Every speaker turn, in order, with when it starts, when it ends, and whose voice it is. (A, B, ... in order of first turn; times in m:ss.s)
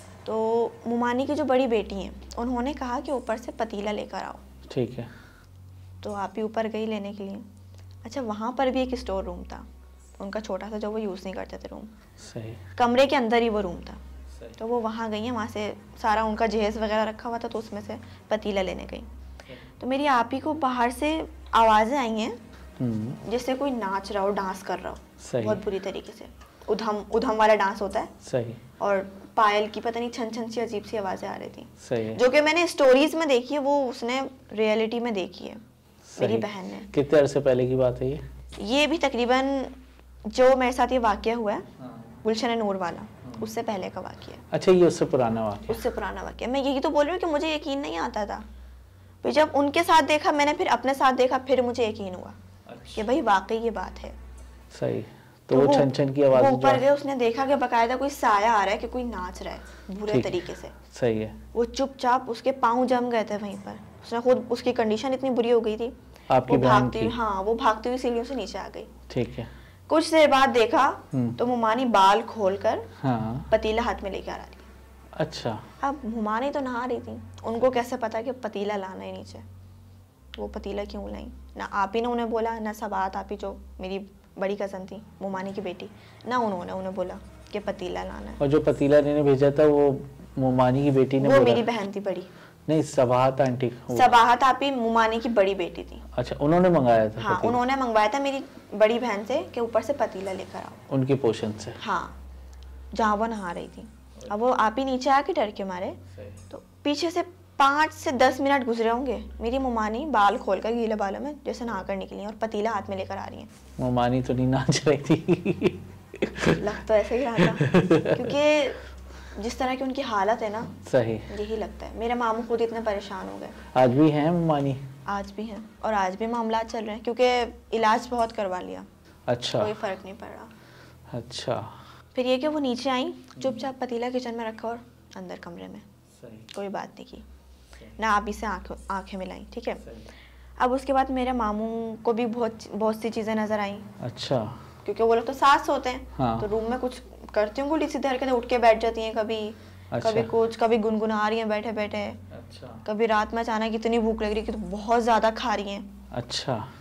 0:00.2-0:04.4 A
0:04.7-0:05.1 B
0:06.0-0:07.4 A
0:08.0-0:09.7 A
0:10.2-0:11.9 A
0:12.2-0:12.6 B
0:12.8-0:14.0 A
0:14.3-0:14.6 B
0:14.6-0:19.1 A
0:19.5-0:19.7 B
0:19.8-0:22.4 A
0:22.8-0:23.2 B
0:23.2-0:28.1 A
0:25.2-0:25.6 B
0:28.2-0:28.6 B
0:28.8-0:35.6 A
0:31.8-0:32.2 B
0:36.1-0:38.2 B
0:36.2-0:36.9 A
0:38.6-0:39.8 A
0:40.3-0:41.7 A
0:41.8-0:42.2 B
0:42.2-0:44.4 A
0:44.5-0:45.8 B
0:45.7-0:48.4 A
0:49.2-0:52.4 A
0:52.7-0:53.1 B
0:52.9-0:54.2 A
0:54.7-0:56.8 B
0:55.5-1:00.8 A
1:00.1-1:01.4 B
1:01.5-1:06.0 A
1:06.3-1:07.2 B
1:06.5-1:08.9 A
1:09.1-1:09.5 B
1:09.9-1:12.9 A
1:11.1-1:11.4 B
1:13.0-1:13.5 B
1:13.5-1:14.7 A
1:15.2-1:15.7 B
1:15.8-1:19.4 A
1:20.4-1:28.4 A
1:28.4-1:31.7 B
1:31.2-1:32.3 A
1:32.7-1:34.2 B
1:33.9-1:36.0 A
1:36.1-1:37.6 B
1:37.2-1:40.8 A
1:40.9-1:41.8 B
1:41.8-1:42.2 A
1:42.9-1:53.5 A
1:46.1-1:46.4 B
1:53.8-1:56.8 B
1:56.6-1:58.8 A
1:57.4-1:58.4 B
1:59.4-2:00.8 A
2:00.8-2:01.3 B
2:01.3-2:03.6 A
2:03.7-2:04.8 B
2:05.1-2:08.9 A
2:09.3-2:09.8 B
2:09.6-2:10.5 A
2:11.1-2:11.8 B
2:12.2-2:15.9 A
2:16.1-2:16.5 B
2:16.5-2:17.2 A
2:17.7-2:18.0 B
2:18.0-2:19.8 A
2:19.8-2:20.1 B
2:20.6-2:23.9 A
2:24.0-2:24.6 B
2:24.8-2:32.2 A
2:26.2-2:26.5 B
2:29.9-2:30.3 B
2:32.3-2:32.8 B
2:32.8-2:35.9 A
2:36.1-2:36.7 B